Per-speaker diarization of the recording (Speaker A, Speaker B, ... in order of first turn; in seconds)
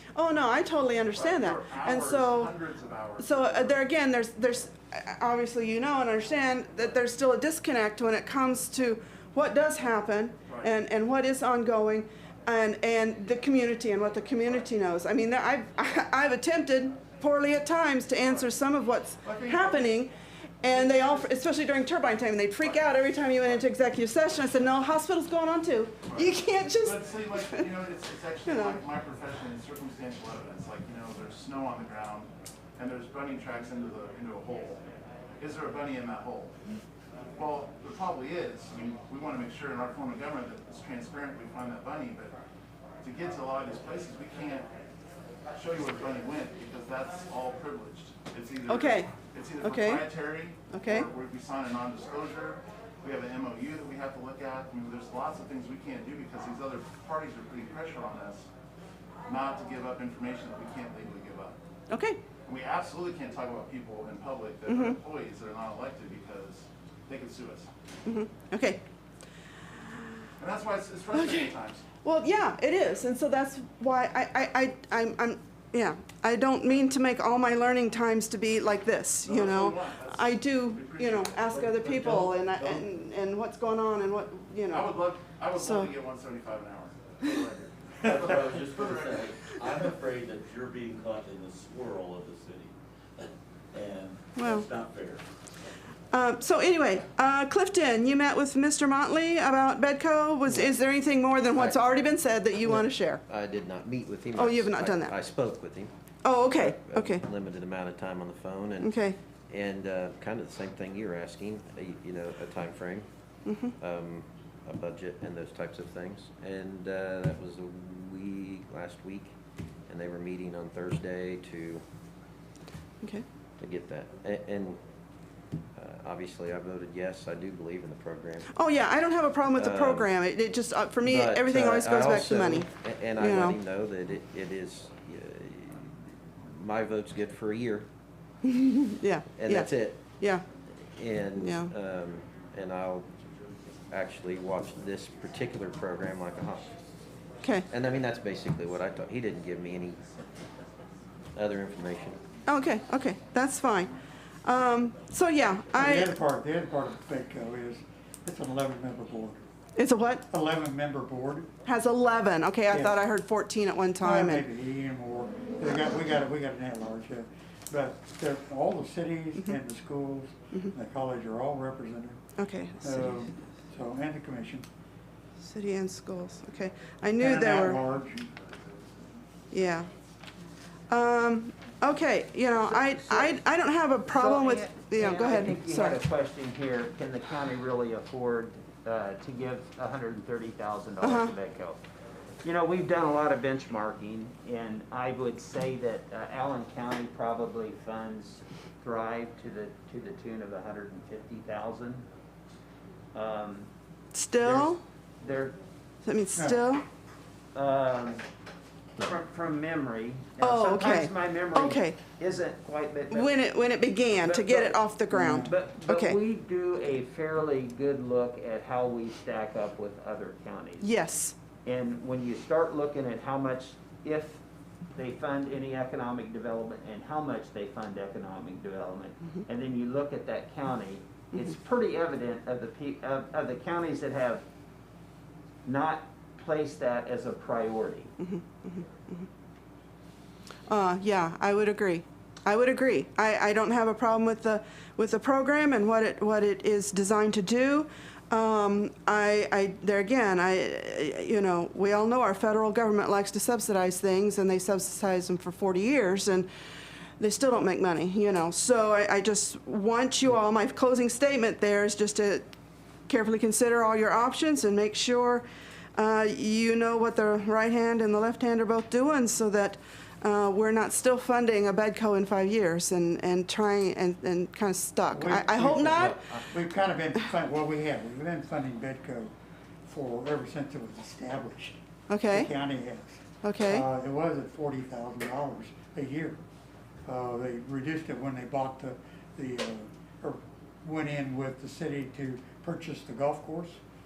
Speaker A: 0.1-2.5, 3.2-20.1, 20.6-27.6, 28.5-28.8, 48.7-49.1, 49.6-51.1, 61.9-62.2, 64.7-65.0, 68.0-68.8, 71.1-71.4, 72.0-84.9, 85.5-85.9, 94.4-94.7, 96.1-103.2, 104.4-105.1, 106.2-107.2, 108.8-109.2, 113.5-113.8, 128.5-133.6, 138.4-140.4, 141.3-141.7, 152.5-153.9, 154.4-156.1, 159.8-160.2, 161.7-164.4, 172.4-173.2, 175.4-177.8, 179.5-179.9, 180.9-186.0, 191.0-191.3, 204.1-204.8, 206.0-206.8, 210.4-212.0, 213.1-216.2, 220.8-221.3, 238.2-239.3, 240.7-256.5, 257.2-262.5, 263.1-276.4, 282.1-282.5, 283.4-283.8
Speaker B: 1.1-3.8, 19.2-19.9, 20.7-21.3, 26.8-34.8, 35.4-36.5, 37.3-42.3, 43.0-44.7, 45.5-58.5, 59.3-61.6, 62.5-67.7, 70.4-71.8, 79.2-82.8, 84.7-89.2
Speaker C: 88.0-95.2
Speaker D: 100.5-100.8, 101.5-101.8, 102.6-105.9, 106.5-113.1, 113.8-119.3, 119.9-121.8, 123.6-124.8, 125.8-128.5, 129.5-130.1, 131.0-137.9, 139.3-140.2, 140.7-143.1, 143.9-146.8, 147.7-150.0, 151.4-152.2
Speaker E: 155.8-159.4, 160.3-161.5, 162.7-163.0, 164.0-172.2, 172.8-174.7, 177.2-178.3, 206.3-206.6, 215.1-215.5, 275.1-279.3, 279.9-281.8, 282.3-286.4, 287.1-293.8
Speaker F: 182.5-183.4, 184.1-191.8, 192.4-202.1, 203.1-203.7, 204.4-205.6, 207.5-208.2, 209.0-213.4, 214.2-220.9, 221.7-224.4, 224.9-234.4, 235.7-238.1